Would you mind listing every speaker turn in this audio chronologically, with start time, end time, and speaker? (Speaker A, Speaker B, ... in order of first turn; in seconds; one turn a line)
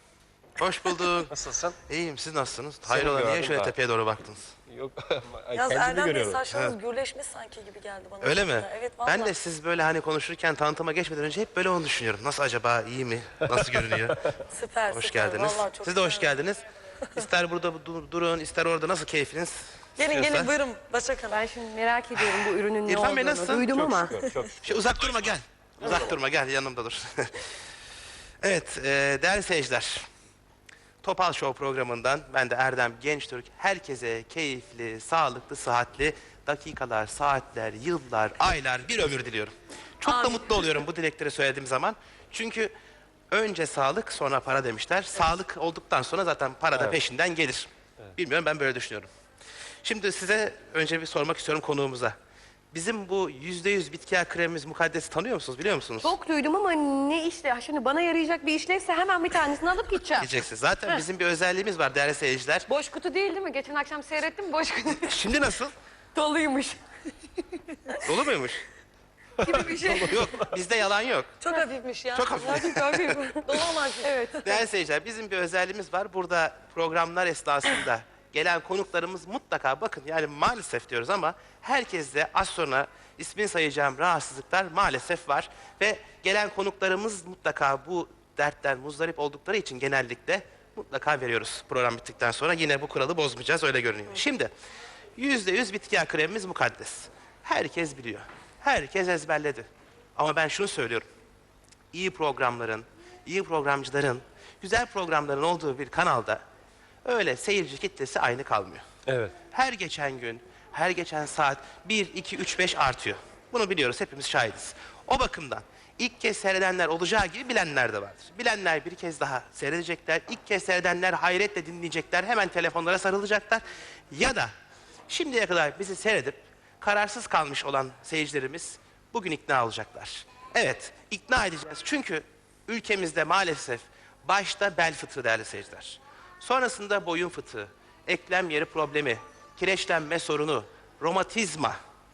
Speaker A: 0.6-1.3
Speaker B: 1.3-1.8
Speaker A: 1.9-4.5
Speaker B: 2.9-3.8
Speaker B: 4.7-6.4
Speaker C: 5.5-9.3
Speaker A: 6.5-6.8
Speaker A: 8.2-14.2
Speaker B: 13.5-14.2
Speaker C: 14.4-16.4
Speaker A: 14.9-16.6
Speaker A: 17.1-20.5
Speaker C: 20.0-21.4
Speaker D: 21.2-24.1
Speaker A: 22.9-23.7
Speaker B: 23.7-24.9
Speaker A: 24.6-27.4
Speaker A: 28.4-30.1
Speaker A: 31.0-42.7
Speaker C: 40.1-40.6
Speaker A: 43.3-49.1
Speaker A: 49.8-52.1
Speaker A: 52.7-56.1
Speaker D: 56.0-60.3
Speaker A: 60.2-62.6
Speaker D: 62.7-65.2
Speaker A: 65.0-65.7
Speaker D: 66.1-66.8
Speaker A: 68.0-68.6
Speaker D: 69.4-70.3
Speaker B: 69.4-70.4
Speaker A: 70.1-71.3
Speaker C: 71.4-74.5
Speaker A: 72.1-73.1
Speaker D: 72.3-74.6
Speaker A: 74.4-94.5
Speaker A: 95.2-101.0
Speaker A: 101.9-106.4
Speaker A: 107.0-108.8
Speaker B: 109.1-109.3
Speaker A: 109.5-124.5
Speaker A: 125.1-141.8